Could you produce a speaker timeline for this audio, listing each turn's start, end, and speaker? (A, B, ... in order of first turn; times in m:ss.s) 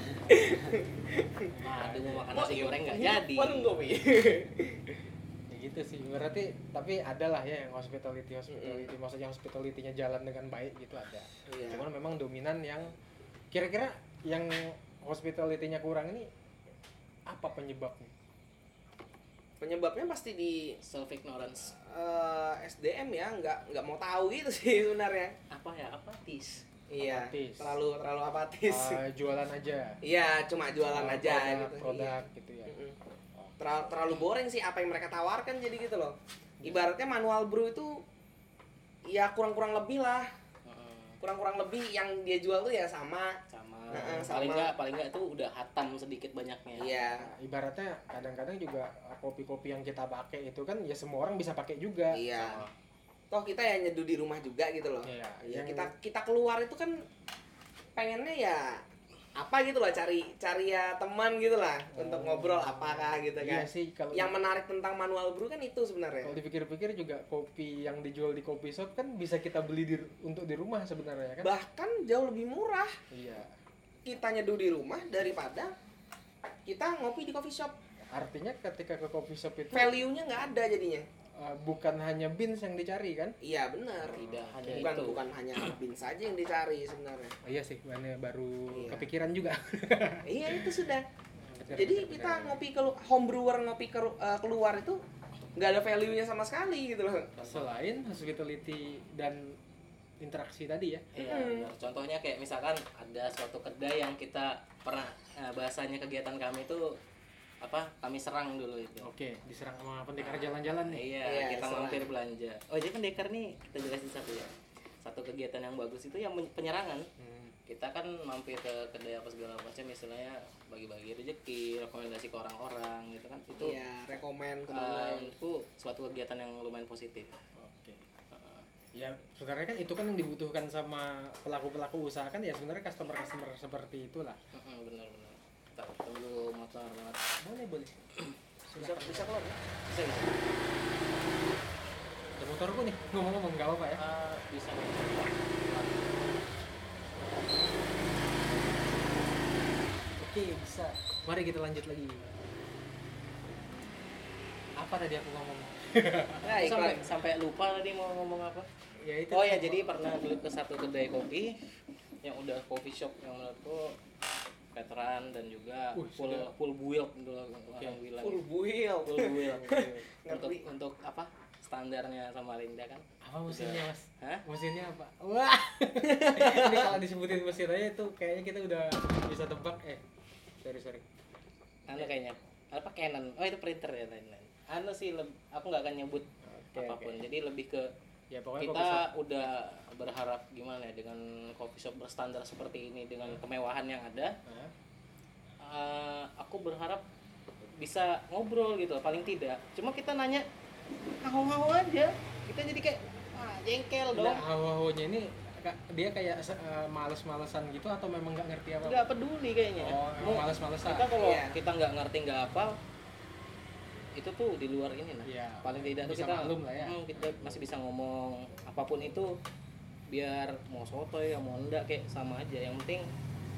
0:00.3-0:01.5 A
0:01.6-0:02.3 B
0:01.6-0:03.7 C
0:02.3-0:04.8 A
0:05.5-0:13.0 B
0:08.5-0:08.9 A
0:11.5-0:11.8 A
0:13.5-0:16.3 B
0:17.3-0:18.1 B
0:19.6-0:20.8 A
0:20.8-0:21.7 C
0:21.7-0:25.4 A
0:25.5-0:26.6 C
0:26.9-0:29.0 A
0:27.0-0:27.8 B
0:28.7-0:30.0 B
0:30.0-0:33.0 A
0:30.9-0:32.7 B
0:33.6-0:38.0 A
0:39.1-0:40.3 A
0:40.7-0:41.2 C
0:41.2-0:43.4 A
0:43.5-0:46.9 C
0:43.9-0:44.7 A
0:44.0-0:44.2 B
0:46.8-0:47.3 A
0:47.1-0:52.7 B
0:52.1-0:52.6 A
0:53.3-0:57.0 A
0:55.0-0:55.9 B
0:58.0-0:58.8 A
0:59.4-1:06.4 A
1:01.9-1:04.4 B
1:06.2-1:11.5 B
1:11.4-1:13.0 A
1:13.1-1:13.6 B
1:14.0-1:15.7 A
1:16.7-1:17.8 A
1:18.1-1:20.0 B
1:19.7-1:21.1 A
1:21.4-1:23.4 B
1:23.4-1:27.4 A
1:24.0-1:25.1 B
1:24.1-1:25.2 C
1:27.4-1:30.8 B
1:28.7-1:29.1 A
1:30.3-1:31.1 A
1:31.4-1:32.6 B
1:31.7-1:35.0 A
1:35.6-1:37.4 A
1:37.4-1:39.6 B
1:40.2-1:41.3 B
1:41.1-1:47.0 C
1:41.2-1:41.7 A
1:47.6-1:49.1 C
1:49.0-1:51.1 B
1:50.2-1:54.5 C
1:51.2-1:52.1 A
1:55.0-1:57.1 C
1:57.2-1:57.6 B
1:57.7-2:03.8 C
2:03.6-2:05.3 A
2:04.7-2:07.3 C
2:07.6-2:08.0 B
2:08.3-2:08.7 C
2:08.9-2:14.4 B
2:14.5-2:17.2 C
2:17.4-2:18.0 B
2:18.7-2:19.3 B
2:18.8-2:19.6 A
2:19.8-2:20.5 C
2:22.4-2:24.0 B
2:24.0-2:26.4 C
2:30.2-2:32.3 B
2:34.8-2:36.6 B
2:36.4-2:37.1 A
2:36.5-2:38.7 C
2:39.0-2:39.9 B
2:39.3-2:41.6 C
2:42.2-2:44.0 C
2:44.8-2:48.4 C
2:45.9-2:46.5 B
2:47.7-2:48.0 B
2:48.2-2:50.6 A
2:49.0-2:54.4 C
2:49.6-2:50.1 B
2:53.2-3:00.0 B
2:56.0-2:56.9 A
3:00.6-3:01.0 B
3:01.9-3:07.9 C
3:06.4-3:07.2 B
3:08.3-3:09.1 B
3:08.6-3:14.4 C
3:14.4-3:14.7 B
3:15.6-3:17.0 C
3:17.8-3:20.4 C
3:21.2-3:24.4 C
3:24.1-3:29.1 B
3:28.8-3:32.8 C
3:29.8-3:31.1 B
3:31.1-3:31.6 A
3:34.1-3:39.4 C
3:35.2-3:37.0 B
3:40.1-3:43.1 C